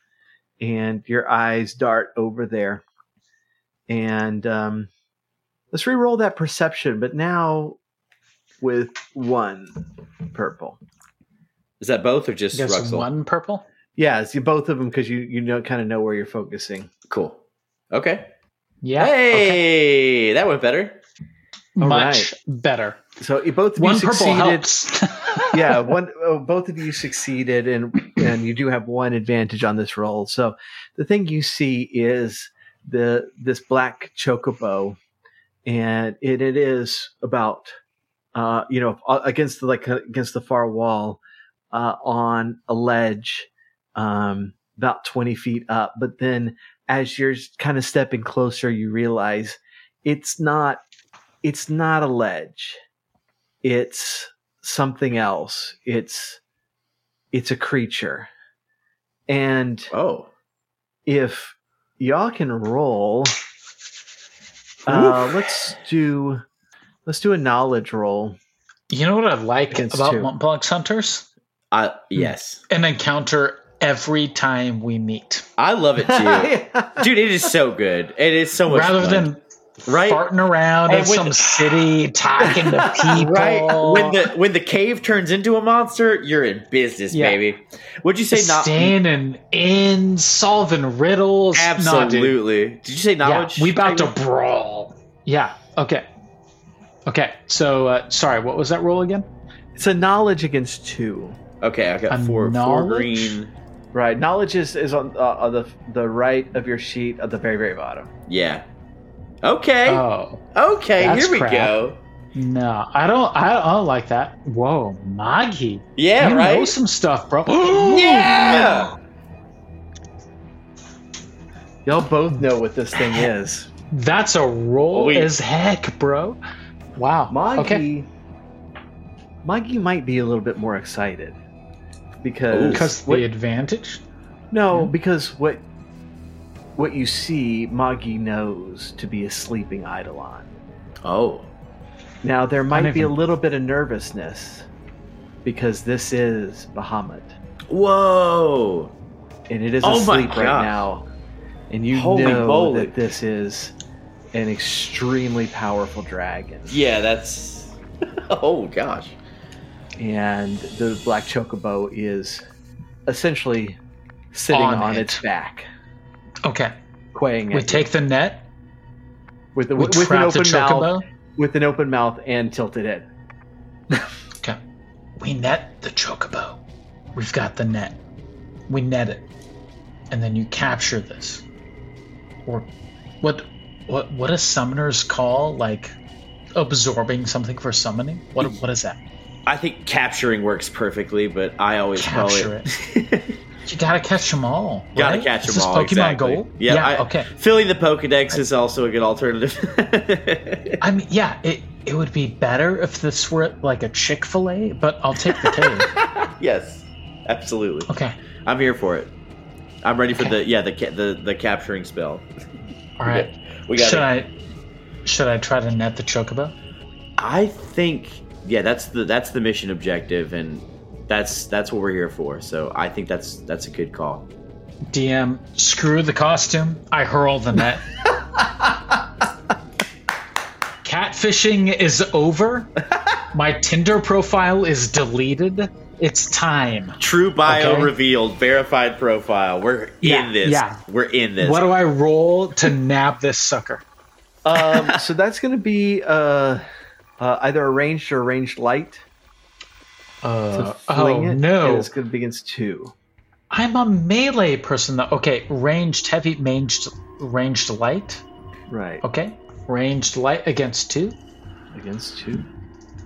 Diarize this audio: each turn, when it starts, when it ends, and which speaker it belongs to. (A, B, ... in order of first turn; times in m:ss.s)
0:00.6-0:02.8 A
0:03.9-0:04.9 A
0:05.7-0:07.8 A
0:08.6-0:09.8 A
0:10.3-0:10.8 A
0:11.8-0:13.1 B
0:12.5-0:13.6 C
0:14.0-0:16.9 A
0:17.1-0:17.4 B
0:17.9-0:18.3 B
0:18.8-0:19.6 C
0:19.0-0:21.0 B
0:21.8-0:23.0 C
0:21.8-0:22.3 A
0:23.2-0:24.7 A
0:23.8-0:25.9 C
0:25.5-0:35.0 A
0:35.6-0:37.7 A
0:38.3-0:50.8 A
0:51.4-0:52.8 A
0:53.6-0:56.4 A
0:57.3-0:58.3 A
0:59.3-0:59.9 A
0:59.9-1:00.3 B
1:01.0-1:03.3 A
1:04.8-1:06.4 A
1:04.9-1:05.5 B
1:07.0-1:08.4 A
1:08.9-1:11.3 C
1:09.7-1:10.3 A
1:11.7-1:12.6 B
1:12.2-1:15.4 C
1:15.6-1:19.3 B
1:16.0-1:17.1 A
1:18.7-1:19.4 C
1:19.8-1:20.2 B
1:19.9-1:24.2 C
1:20.9-1:21.9 B
1:22.4-1:23.3 A
1:22.9-1:29.0 B
1:27.1-1:27.4 C
1:28.3-1:32.4 C
1:31.5-1:34.1 B
1:33.2-1:36.1 C
1:37.0-1:39.3 C
1:39.8-1:41.4 A
1:41.6-1:43.5 B
1:42.1-1:43.4 C
1:43.9-1:48.1 A
1:48.3-1:48.6 B
1:49.4-1:50.0 B
1:49.9-1:50.4 C
1:50.5-1:52.0 B
1:51.0-1:51.8 C
1:52.3-1:58.6 C
1:56.0-1:56.8 B
1:57.7-1:58.9 A
1:57.8-1:58.9 B
2:01.8-2:03.7 A
2:03.9-2:06.4 C
2:04.9-2:05.3 B
2:07.0-2:07.8 C
2:07.3-2:08.1 A
2:09.4-2:11.4 A
2:12.2-2:13.3 A
2:12.5-2:12.9 B
2:12.7-2:14.0 C
2:14.5-2:15.6 A
2:16.8-2:20.5 A
2:21.0-2:21.5 B
2:22.2-2:24.7 A
2:22.7-2:23.1 C
2:25.4-2:27.4 A
2:27.7-2:28.9 B
2:29.5-2:31.1 A
2:29.8-2:30.8 B
2:31.7-2:33.7 A
2:31.9-2:33.0 B
2:34.3-2:36.8 A
2:36.7-2:39.2 B
2:40.0-2:42.4 A
2:43.1-2:43.8 A
2:44.3-2:45.7 A
2:44.5-2:45.2 C
2:46.4-2:46.7 C
2:47.1-2:47.9 A
2:47.5-2:48.5 C
2:49.5-2:53.1 A
2:49.8-2:51.0 C
2:55.2-2:56.6 C
2:57.1-2:58.0 C
2:58.7-2:59.3 C
3:00.1-3:01.4 C
3:03.2-3:05.9 C
3:06.6-3:09.0 C
3:09.4-3:13.3 B
3:12.0-3:12.7 C
3:13.6-3:17.3 C
3:15.0-3:20.8 B
3:20.8-3:25.9 C
3:25.3-3:27.9 B
3:27.9-3:28.2 C
3:28.4-3:29.1 B
3:29.8-3:32.2 B
3:33.0-3:34.3 C
3:33.0-3:34.1 B
3:35.0-3:36.5 C
3:37.2-3:44.3 B
3:44.9-3:47.8 C
3:50.8-3:52.7 C
3:53.3-3:57.9 C
3:57.0-4:01.7 B
4:00.0-4:00.8 C
4:01.4-4:03.8 C
4:04.4-4:06.6 A
4:07.2-4:09.0 A
4:10.2-4:11.9 C
4:10.5-4:12.9 A
4:13.5-4:18.2 C
4:18.7-4:19.0 A
4:19.0-4:21.2 C
4:21.7-4:22.4 A